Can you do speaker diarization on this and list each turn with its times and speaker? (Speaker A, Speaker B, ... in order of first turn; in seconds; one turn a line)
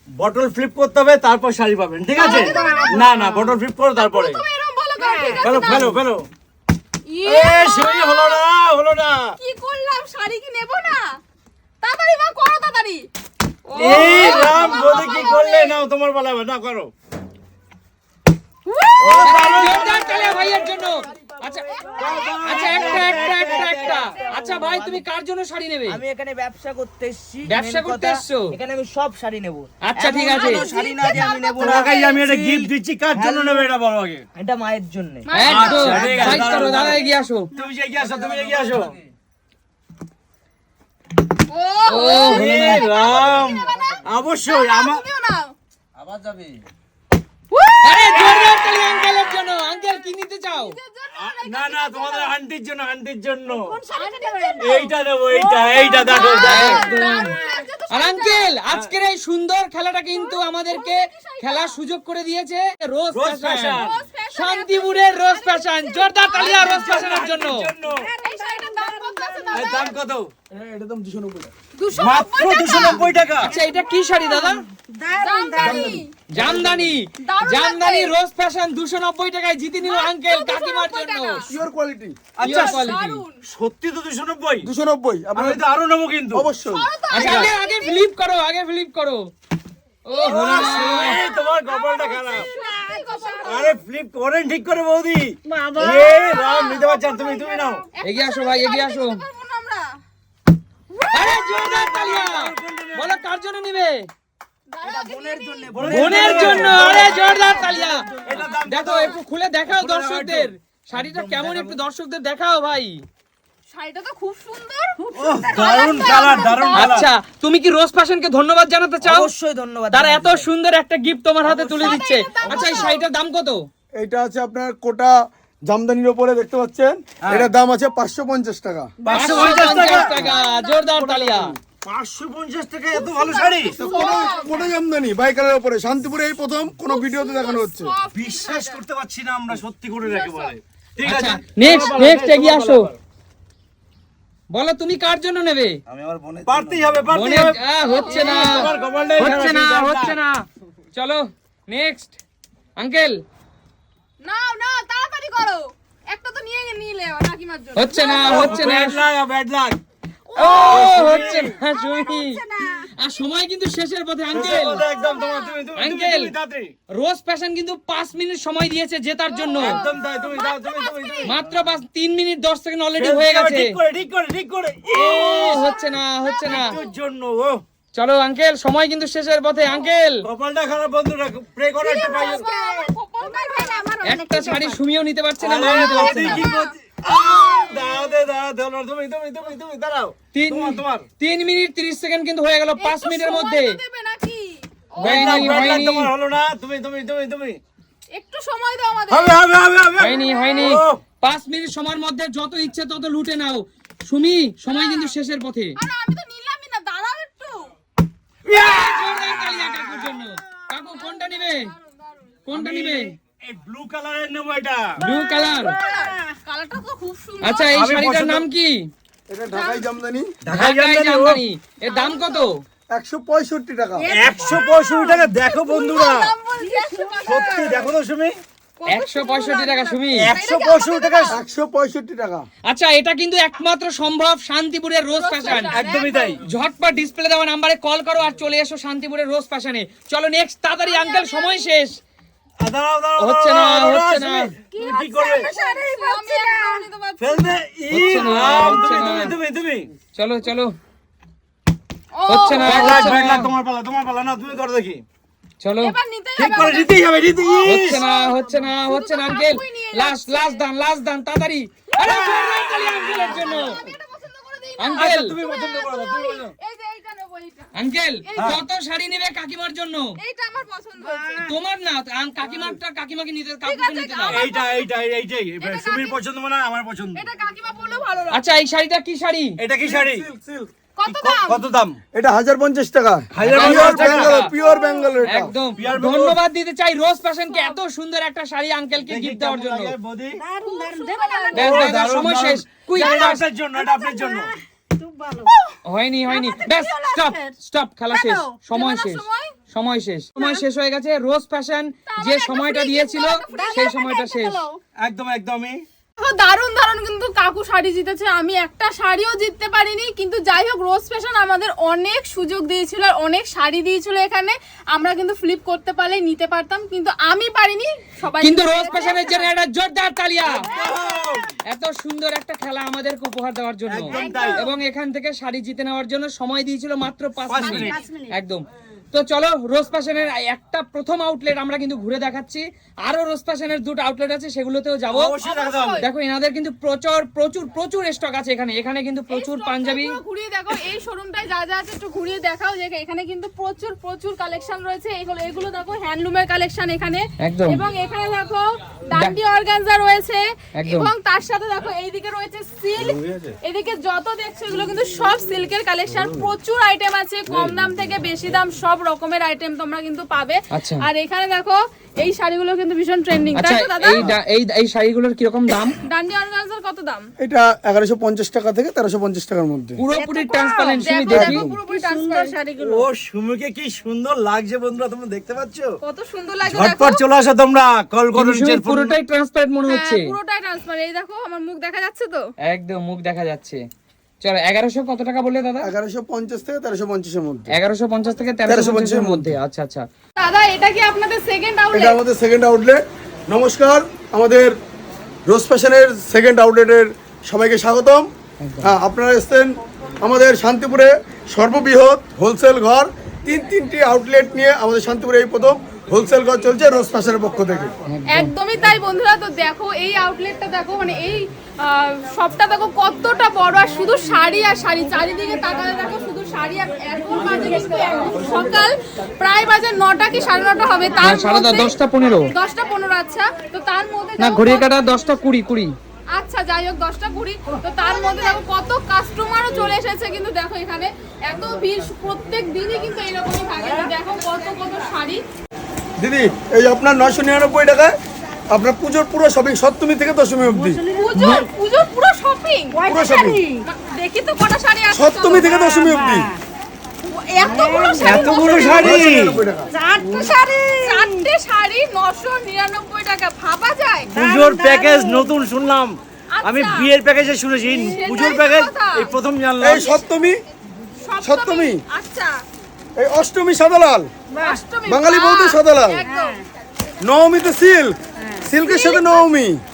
Speaker A: 0.2-4.4
Speaker B: 2.1-3.1
Speaker C: 2.2-3.6
Speaker B: 4.0-6.0
Speaker C: 5.0-5.8
Speaker A: 5.3-6.3
Speaker B: 7.1-8.4
Speaker A: 7.2-9.4
Speaker B: 9.4-11.1
Speaker B: 11.8-13.1
Speaker B: 13.7-15.8
Speaker A: 13.8-16.9
Speaker D: 13.8-14.6
Speaker B: 18.7-20.3
Speaker C: 19.0-21.8
Speaker A: 19.0-20.4
Speaker D: 19.2-26.0
Speaker B: 21.7-23.5
Speaker A: 22.0-24.6
Speaker C: 22.5-25.0
Speaker C: 25.9-33.7
Speaker D: 27.5-28.5
Speaker D: 29.8-30.7
Speaker B: 30.2-32.1
Speaker A: 30.4-34.3
Speaker C: 34.4-35.3
Speaker B: 35.2-36.6
Speaker D: 35.3-37.5
Speaker A: 35.4-39.0
Speaker C: 36.0-36.8
Speaker B: 41.5-45.5
Speaker D: 41.9-42.9
Speaker A: 42.2-45.0
Speaker B: 47.5-49.5
Speaker D: 47.8-50.8
Speaker A: 47.9-48.7
Speaker B: 50.5-52.4
Speaker A: 51.2-53.8
Speaker C: 53.5-57.6
Speaker B: 53.9-54.9
Speaker A: 54.6-56.8
Speaker B: 56.0-58.5
Speaker D: 56.4-57.4
Speaker D: 57.9-67.7
Speaker B: 60.1-61.8
Speaker A: 63.1-64.0
Speaker B: 63.7-67.0
Speaker A: 66.3-68.1
Speaker C: 67.8-69.9
Speaker B: 68.2-70.0
Speaker A: 69.5-70.3
Speaker E: 70.5-71.5
Speaker B: 71.8-73.1
Speaker A: 71.9-73.6
Speaker D: 73.4-74.6
Speaker C: 73.5-76.0
Speaker B: 75.1-76.1
Speaker E: 75.6-76.9
Speaker D: 76.3-81.5
Speaker B: 77.3-78.1
Speaker B: 79.8-81.5
Speaker E: 81.5-82.2
Speaker A: 82.4-82.9
Speaker B: 82.4-83.4
Speaker D: 82.4-83.2
Speaker A: 83.5-84.7
Speaker E: 84.6-85.6
Speaker A: 85.3-86.5
Speaker E: 86.3-86.9
Speaker B: 86.7-88.1
Speaker D: 87.1-89.2
Speaker A: 87.2-87.5
Speaker D: 90.1-91.2
Speaker B: 90.1-93.8
Speaker A: 90.3-92.5
Speaker C: 92.5-93.6
Speaker A: 93.4-97.9
Speaker C: 95.5-96.4
Speaker B: 96.0-100.0
Speaker D: 98.0-99.2
Speaker B: 100.9-102.2
Speaker D: 101.1-104.0
Speaker A: 101.7-103.1
Speaker B: 104.7-108.6
Speaker A: 104.8-107.5
Speaker C: 105.7-107.0
Speaker D: 105.9-108.1
Speaker A: 108.2-111.8
Speaker D: 108.6-113.0
Speaker B: 113.7-117.1
Speaker C: 115.1-116.0
Speaker A: 115.1-117.1
Speaker D: 116.7-119.3
Speaker C: 119.0-120.5
Speaker D: 119.9-123.6
Speaker A: 121.5-121.8
Speaker B: 121.8-123.0
Speaker E: 124.0-128.9
Speaker A: 129.1-130.2
Speaker C: 129.1-129.6
Speaker D: 129.1-131.5
Speaker B: 129.3-131.1
Speaker E: 131.1-131.6
Speaker A: 131.8-133.8
Speaker B: 132.9-134.7
Speaker E: 133.7-137.9
Speaker B: 136.9-138.8
Speaker A: 138.1-143.0
Speaker B: 140.0-140.5
Speaker D: 141.0-142.8
Speaker B: 141.7-142.0
Speaker D: 144.5-145.8
Speaker A: 145.9-150.2
Speaker D: 147.1-150.4
Speaker B: 147.8-149.3
Speaker D: 150.9-152.2
Speaker D: 152.8-153.2
Speaker B: 154.2-158.5
Speaker D: 157.8-159.0
Speaker A: 158.1-159.8
Speaker B: 160.3-162.7
Speaker D: 160.4-162.4
Speaker A: 160.7-161.6
Speaker C: 161.9-162.9
Speaker D: 163.0-164.9
Speaker A: 164.3-166.7
Speaker B: 164.8-165.6
Speaker D: 165.8-166.3
Speaker D: 167.0-169.8
Speaker B: 169.3-171.3
Speaker A: 169.6-171.4
Speaker C: 170.0-171.0
Speaker D: 171.2-173.7
Speaker A: 173.0-175.8
Speaker D: 174.9-176.8
Speaker B: 175.5-176.9
Speaker A: 176.4-177.6
Speaker D: 177.9-180.1
Speaker A: 180.2-182.9
Speaker B: 181.8-184.2
Speaker C: 182.8-184.8
Speaker D: 184.0-186.5
Speaker A: 185.4-191.1
Speaker B: 185.8-186.7
Speaker D: 190.3-193.8
Speaker B: 192.8-195.7
Speaker D: 195.0-196.1
Speaker A: 195.0-197.6
Speaker B: 198.2-199.4
Speaker A: 199.1-201.0
Speaker D: 200.0-205.8
Speaker B: 200.2-200.7
Speaker B: 204.7-205.1
Speaker B: 205.8-207.7
Speaker D: 208.5-211.7
Speaker A: 208.5-210.0
Speaker B: 210.9-212.3
Speaker D: 212.5-213.1
Speaker A: 212.5-215.0
Speaker D: 215.0-215.8
Speaker B: 215.0-217.7
Speaker C: 215.8-216.3
Speaker D: 217.4-218.8
Speaker A: 217.7-218.4
Speaker E: 219.3-220.3
Speaker B: 219.5-219.9
Speaker A: 220.4-221.4
Speaker D: 220.5-222.6
Speaker B: 221.8-222.5
Speaker E: 222.9-224.1
Speaker C: 224.0-224.6
Speaker A: 224.1-226.3
Speaker B: 224.2-227.9
Speaker C: 226.6-227.4
Speaker A: 227.2-228.3
Speaker B: 228.8-231.4
Speaker D: 228.9-230.4
Speaker A: 230.2-231.4
Speaker E: 231.3-232.5
Speaker D: 232.7-235.8
Speaker B: 235.2-236.4
Speaker A: 235.5-236.4
Speaker D: 236.4-241.9
Speaker B: 240.8-241.7
Speaker A: 242.6-245.5
Speaker D: 243.2-244.5
Speaker B: 244.7-249.2
Speaker C: 244.8-246.9
Speaker A: 247.2-249.9
Speaker D: 247.9-249.3
Speaker D: 250.2-250.8
Speaker B: 252.1-253.0
Speaker D: 252.3-253.5
Speaker A: 252.6-255.0
Speaker D: 255.6-256.0
Speaker B: 255.8-260.6
Speaker A: 256.4-258.0
Speaker D: 257.6-263.8
Speaker B: 262.0-267.7
Speaker A: 262.0-262.9
Speaker D: 264.8-265.4
Speaker A: 264.9-266.5
Speaker D: 267.8-270.0
Speaker B: 268.2-268.6
Speaker A: 268.4-268.6
Speaker B: 270.2-271.5
Speaker D: 271.4-274.4
Speaker B: 273.6-274.9
Speaker A: 274.2-277.3
Speaker B: 275.6-276.2
Speaker B: 277.1-278.5
Speaker D: 278.3-279.5
Speaker A: 279.6-280.3
Speaker E: 279.8-280.7
Speaker B: 281.0-281.6
Speaker A: 281.1-282.0
Speaker E: 282.1-285.5
Speaker A: 283.3-284.4
Speaker D: 283.4-284.5
Speaker D: 285.2-289.9
Speaker A: 285.8-286.4
Speaker A: 289.1-290.4
Speaker C: 290.4-292.2
Speaker B: 290.6-291.7
Speaker D: 291.5-293.4
Speaker A: 291.5-294.5
Speaker C: 293.7-295.5
Speaker D: 295.9-304.6
Speaker C: 296.3-297.5
Speaker B: 298.1-299.6
Speaker C: 298.2-298.6
Speaker B: 300.4-300.6
Speaker B: 302.1-304.4
Speaker C: 303.5-304.7
Speaker A: 305.0-305.8
Speaker B: 306.2-319.5
Speaker D: 318.4-320.7
Speaker A: 320.4-321.6
Speaker C: 320.9-321.3
Speaker D: 321.7-335.4
Speaker A: 323.9-324.7
Speaker C: 324.1-324.6
Speaker A: 327.4-328.0
Speaker C: 327.6-328.3
Speaker A: 335.1-336.0
Speaker B: 335.4-336.1
Speaker D: 336.0-340.2
Speaker B: 339.3-364.3
Speaker D: 347.4-347.9
Speaker D: 350.8-351.1
Speaker A: 353.2-353.5
Speaker D: 360.7-361.1
Speaker D: 363.6-366.0
Speaker B: 366.0-367.3
Speaker E: 367.4-370.0
Speaker D: 370.0-371.7
Speaker C: 370.1-371.1
Speaker B: 370.9-372.7
Speaker E: 371.3-371.8
Speaker C: 371.8-373.1
Speaker A: 372.8-376.0
Speaker B: 376.0-377.2
Speaker A: 376.7-379.1
Speaker D: 378.4-380.3
Speaker B: 379.8-382.4
Speaker D: 382.6-383.8
Speaker D: 384.4-385.9
Speaker E: 385.8-387.7
Speaker D: 387.7-390.1
Speaker E: 388.7-389.5
Speaker B: 390.4-392.2
Speaker E: 391.9-394.7
Speaker E: 395.5-398.3
Speaker D: 398.6-398.9
Speaker E: 398.8-407.9
Speaker D: 408.1-408.5
Speaker B: 408.3-421.9
Speaker D: 421.2-422.5
Speaker B: 422.5-424.9
Speaker D: 424.4-425.9
Speaker B: 426.4-435.4
Speaker E: 436.2-438.2
Speaker E: 438.7-441.0
Speaker C: 440.7-441.7
Speaker B: 441.1-443.1
Speaker C: 442.9-443.9
Speaker E: 443.1-443.6
Speaker B: 443.9-445.7
Speaker E: 445.1-446.5
Speaker C: 445.7-446.6
Speaker B: 447.2-449.1
Speaker C: 447.6-448.9
Speaker A: 448.2-449.6
Speaker E: 449.0-449.9
Speaker C: 449.9-451.5
Speaker B: 450.2-455.5
Speaker A: 454.3-460.2
Speaker C: 454.4-455.1
Speaker B: 456.6-457.1
Speaker B: 457.8-459.3
Speaker E: 459.8-460.6
Speaker B: 461.2-462.5
Speaker E: 461.4-462.0
Speaker E: 463.2-464.3
Speaker C: 464.5-464.8
Speaker B: 464.6-466.6
Speaker E: 465.1-466.2
Speaker C: 466.2-466.6
Speaker E: 467.2-469.8
Speaker C: 468.4-468.7
Speaker B: 468.7-469.5